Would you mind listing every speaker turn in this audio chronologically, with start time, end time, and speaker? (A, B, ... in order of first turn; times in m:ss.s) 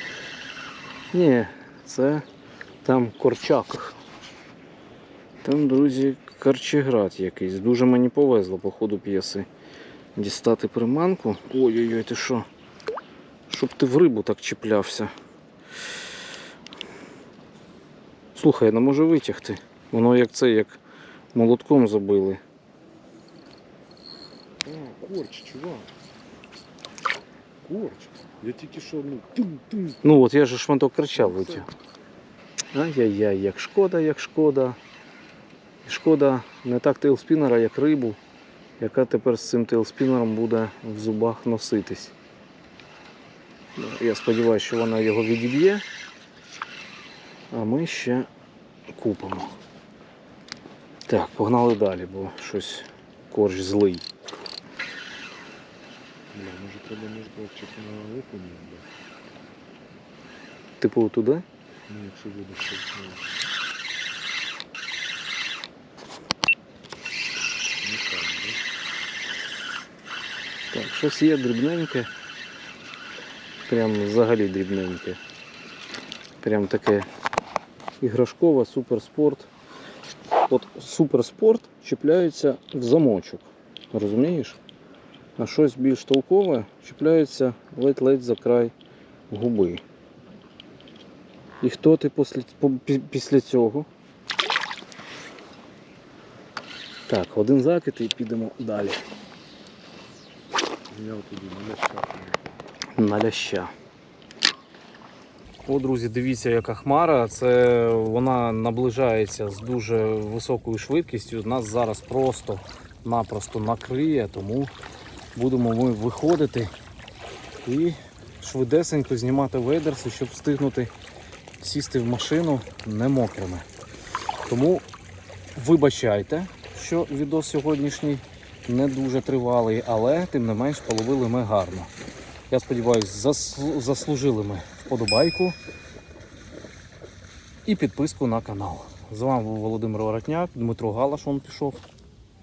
0:01.1-0:02.2 A
0:02.8-0:04.0 A
0:05.4-0:09.5 A
0:10.2-0:12.5 A
0:13.5-0:15.1 A
0:18.4-0:20.8 A
0:21.3-0:22.4 A
0:24.6-0:25.9 B
0:27.6-0:30.0 B
0:30.0-0:31.7 A
0:31.2-0:31.7 B
0:32.7-0:34.8 A
0:35.8-0:38.2 A
0:38.8-0:42.1 A
0:43.8-0:45.8 A
0:47.5-0:48.3 A
0:48.9-0:49.6 A
0:51.1-0:54.0 A
0:56.3-0:58.9 B
1:00.8-1:01.4 A
1:01.9-1:03.3 B
1:07.8-1:08.6 B
1:10.7-1:12.1 A
1:13.7-1:15.2 A
1:16.4-1:17.1 A
1:18.0-1:19.5 A
1:20.5-1:24.6 A
1:25.4-1:28.7 A
1:29.3-1:29.8 A
1:31.6-1:33.9 A
1:37.1-1:39.0 A
1:40.9-1:42.4 B
1:43.0-1:43.7 A
1:45.6-1:54.7 A
1:55.4-1:56.7 A
1:57.6-2:00.9 A
2:01.6-2:03.6 A
2:04.5-2:04.8 A
2:05.6-2:11.9 A
2:12.5-2:15.6 A
2:17.7-2:21.8 A